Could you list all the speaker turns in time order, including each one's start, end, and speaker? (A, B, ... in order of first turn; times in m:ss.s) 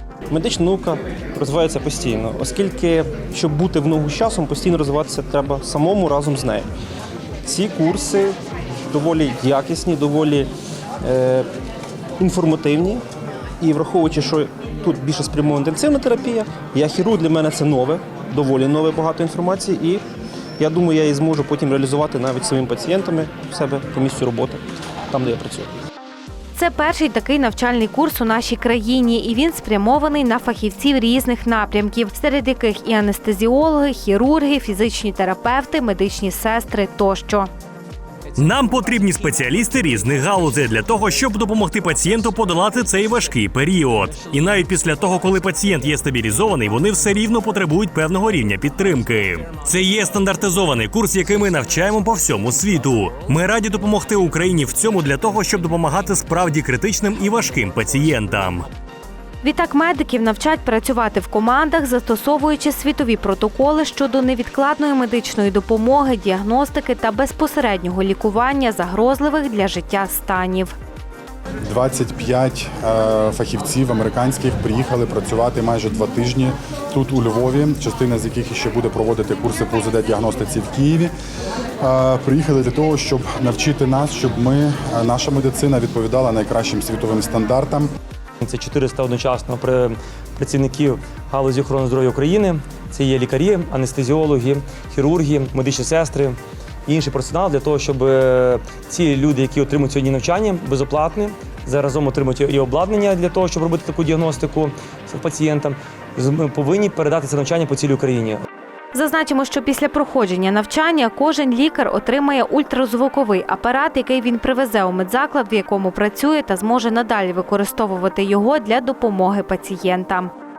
0:00.3-0:06.7 A
0:07.4-0:08.4 A
0:08.9-0:10.5 A
0:11.0-0:11.5 A
0:12.2-0:13.0 A
0:13.6-0:20.0 A
0:20.6-0:25.7 A
0:26.5-0:37.5 B
0:38.4-0:58.6 C
0:59.4-1:10.7 B
1:11.6-1:21.1 D
1:21.8-1:27.9 D
1:28.4-1:48.4 E
1:48.9-2:00.3 B